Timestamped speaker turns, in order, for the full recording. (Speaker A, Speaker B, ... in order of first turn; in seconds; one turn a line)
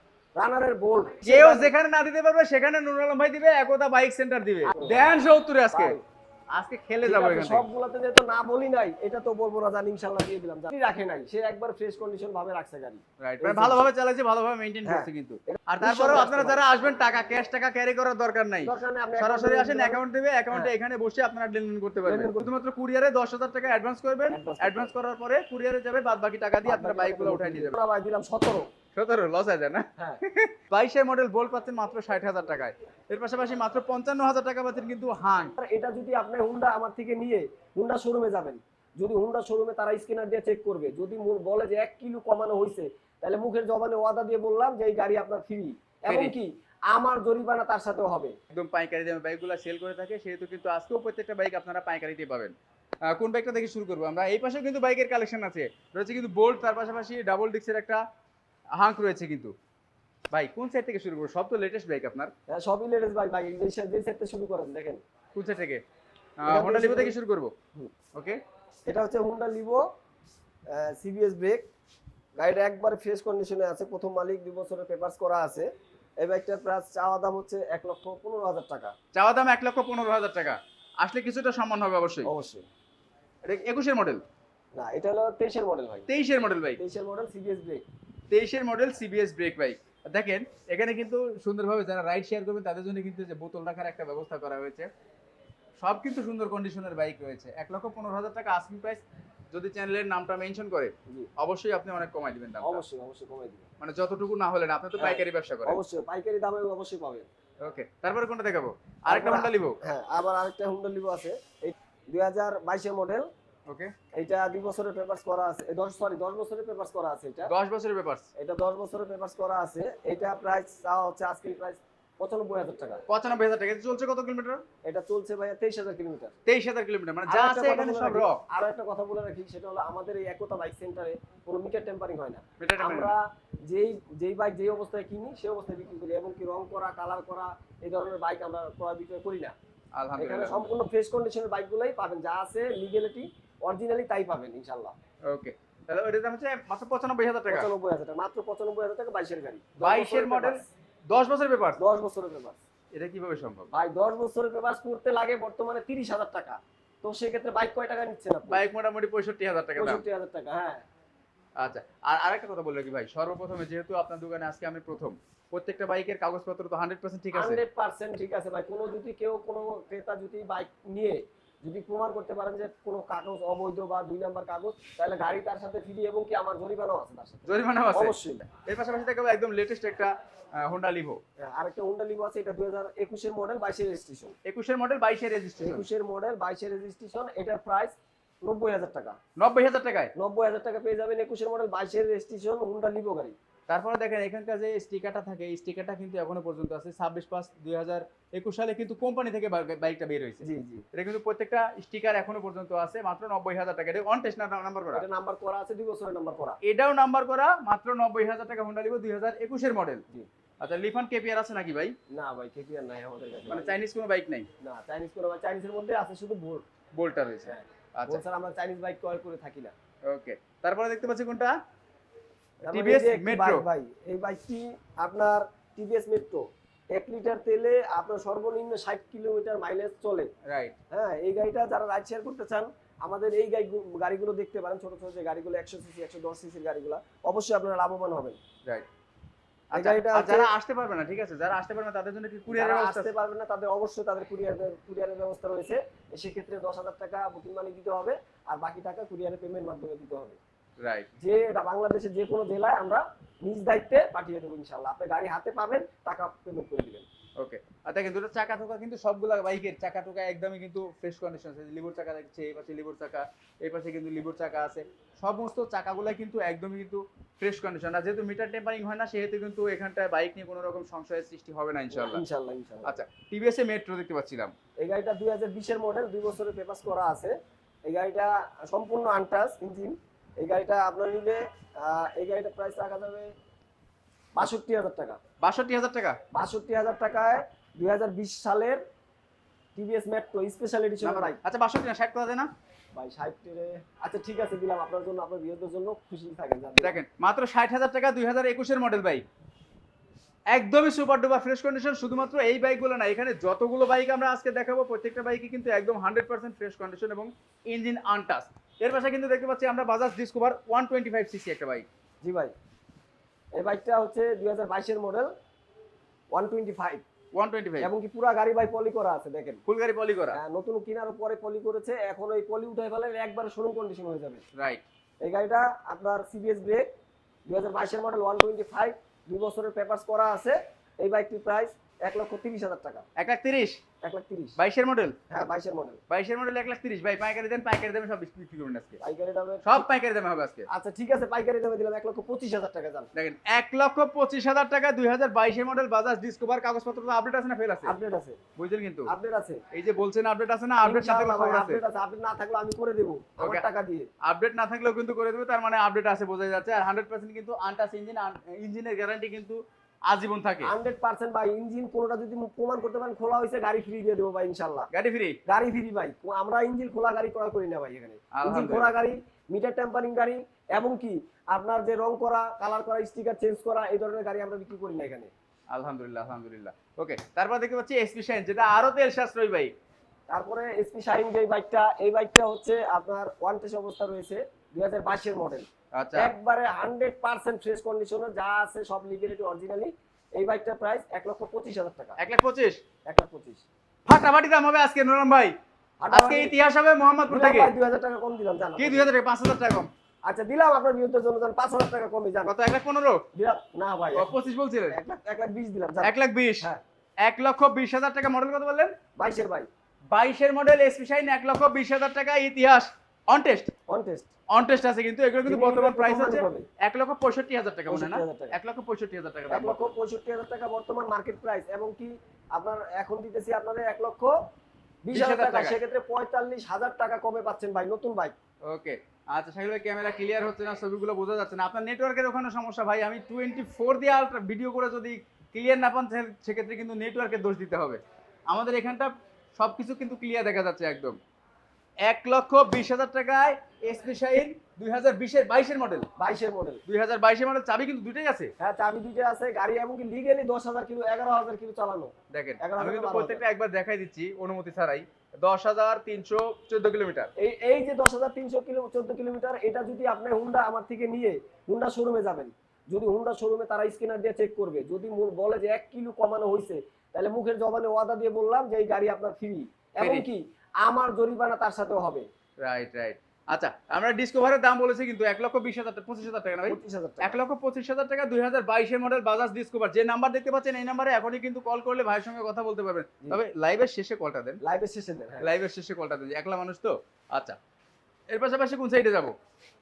Speaker A: 0.4-1.7
Speaker B: 1.2-6.0
Speaker A: 4.7-5.1
Speaker A: 5.7-6.0
Speaker B: 6.5-7.7
Speaker A: 7.0-13.8
Speaker B: 13.2-27.8
Speaker A: 14.8-16.6
Speaker A: 18.6-20.7
Speaker A: 22.1-22.5
Speaker A: 24.3-24.9
Speaker A: 26.6-28.7
Speaker B: 28.9-35.5
Speaker A: 35.6-48.4
Speaker B: 46.1-46.3
Speaker B: 48.5-52.5
Speaker B: 53.1-58.0
Speaker B: 58.8-59.5
Speaker B: 60.3-62.3
Speaker A: 62.5-65.0
Speaker B: 65.3-65.8
Speaker B: 66.4-67.5
Speaker A: 66.5-67.2
Speaker B: 68.2-68.4
Speaker A: 68.9-69.8
Speaker A: 70.7-71.7
Speaker A: 72.4-79.0
Speaker B: 79.1-82.3
Speaker A: 82.2-82.7
Speaker B: 83.4-84.2
Speaker A: 84.8-86.1
Speaker B: 86.1-86.8
Speaker A: 86.8-87.8
Speaker B: 88.3-94.9
Speaker B: 95.8-102.8
Speaker A: 102.6-103.7
Speaker B: 103.8-105.8
Speaker A: 105.0-107.3
Speaker B: 107.6-109.8
Speaker A: 109.1-113.3
Speaker A: 114.2-117.5
Speaker B: 117.5-118.3
Speaker A: 118.4-123.0
Speaker B: 123.1-124.6
Speaker A: 124.8-126.3
Speaker B: 126.5-128.4
Speaker A: 127.3-139.6
Speaker B: 132.6-133.1
Speaker B: 140.0-140.7
Speaker A: 140.2-144.9
Speaker B: 145.3-147.7
Speaker A: 147.5-150.7
Speaker B: 149.8-151.8
Speaker A: 151.8-152.6
Speaker B: 152.9-153.7
Speaker A: 153.7-158.6
Speaker B: 158.5-160.0
Speaker A: 159.8-160.9
Speaker B: 161.6-167.6
Speaker A: 167.3-178.4
Speaker B: 177.5-181.2
Speaker A: 181.4-184.3
Speaker B: 184.5-185.9
Speaker A: 185.6-189.2
Speaker B: 189.4-190.1
Speaker A: 190.2-193.4
Speaker B: 193.7-205.1
Speaker A: 200.4-200.8
Speaker A: 204.9-206.6
Speaker B: 206.6-210.0
Speaker B: 210.6-211.9
Speaker A: 212.1-213.8
Speaker B: 213.5-214.5
Speaker A: 214.6-216.7
Speaker B: 217.0-218.2
Speaker A: 217.5-219.7
Speaker B: 220.1-221.6
Speaker B: 222.7-223.7
Speaker A: 222.7-230.3
Speaker B: 230.5-230.8
Speaker A: 230.9-238.4
Speaker B: 239.7-243.1
Speaker A: 239.7-240.5
Speaker A: 242.5-250.4
Speaker B: 250.8-251.1
Speaker A: 251.2-257.1
Speaker B: 257.4-272.2
Speaker A: 271.9-272.9
Speaker B: 272.9-274.5
Speaker A: 274.8-277.4
Speaker A: 277.9-283.3
Speaker A: 284.4-285.2
Speaker B: 285.4-286.2
Speaker A: 286.3-288.8
Speaker A: 289.8-291.4
Speaker B: 291.0-292.5
Speaker A: 292.9-297.0
Speaker B: 296.8-299.2
Speaker B: 300.5-311.9
Speaker A: 312.2-312.5
Speaker A: 313.6-315.3
Speaker A: 316.3-317.1
Speaker B: 317.4-317.9
Speaker A: 317.8-319.6
Speaker B: 319.7-320.4
Speaker A: 320.3-324.4
Speaker B: 324.6-324.8
Speaker A: 325.2-326.9
Speaker A: 327.5-333.1
Speaker B: 333.2-333.8
Speaker A: 334.0-334.6
Speaker B: 334.6-335.2
Speaker A: 335.3-336.0
Speaker B: 336.1-339.0
Speaker A: 339.0-339.9
Speaker B: 339.6-340.7
Speaker A: 340.7-343.1
Speaker B: 343.1-347.9
Speaker A: 347.8-348.4
Speaker B: 348.6-349.1
Speaker A: 349.1-349.6
Speaker B: 349.7-351.8
Speaker A: 350.8-354.1
Speaker B: 353.4-353.6
Speaker B: 354.2-360.7
Speaker A: 360.6-364.9
Speaker B: 364.9-365.4
Speaker A: 365.5-375.3
Speaker B: 368.3-368.9
Speaker B: 375.7-379.7
Speaker A: 380.3-392.2
Speaker B: 385.9-386.3
Speaker B: 392.2-392.8
Speaker A: 393.1-393.6
Speaker B: 394.1-395.6
Speaker A: 396.0-396.5
Speaker B: 396.1-397.7
Speaker A: 397.3-399.1
Speaker B: 398.8-399.9
Speaker A: 400.3-402.5
Speaker B: 402.5-403.2
Speaker A: 403.3-404.3
Speaker B: 404.1-405.0
Speaker A: 404.9-406.8
Speaker B: 406.0-406.7
Speaker B: 407.2-408.9
Speaker A: 409.2-409.7
Speaker B: 410.1-413.7
Speaker A: 413.9-414.3
Speaker B: 414.5-419.8
Speaker A: 415.5-416.7
Speaker A: 417.9-418.6
Speaker A: 419.5-424.4
Speaker A: 425.1-428.4
Speaker B: 425.1-425.8
Speaker B: 428.7-441.2
Speaker B: 442.0-446.1
Speaker A: 446.2-446.8
Speaker B: 446.9-448.5
Speaker A: 448.6-453.4
Speaker B: 452.3-457.3
Speaker A: 457.4-472.3
Speaker B: 470.0-470.3
Speaker B: 472.6-484.6
Speaker A: 476.7-477.4
Speaker A: 484.6-485.5
Speaker B: 485.4-487.6
Speaker B: 488.3-489.4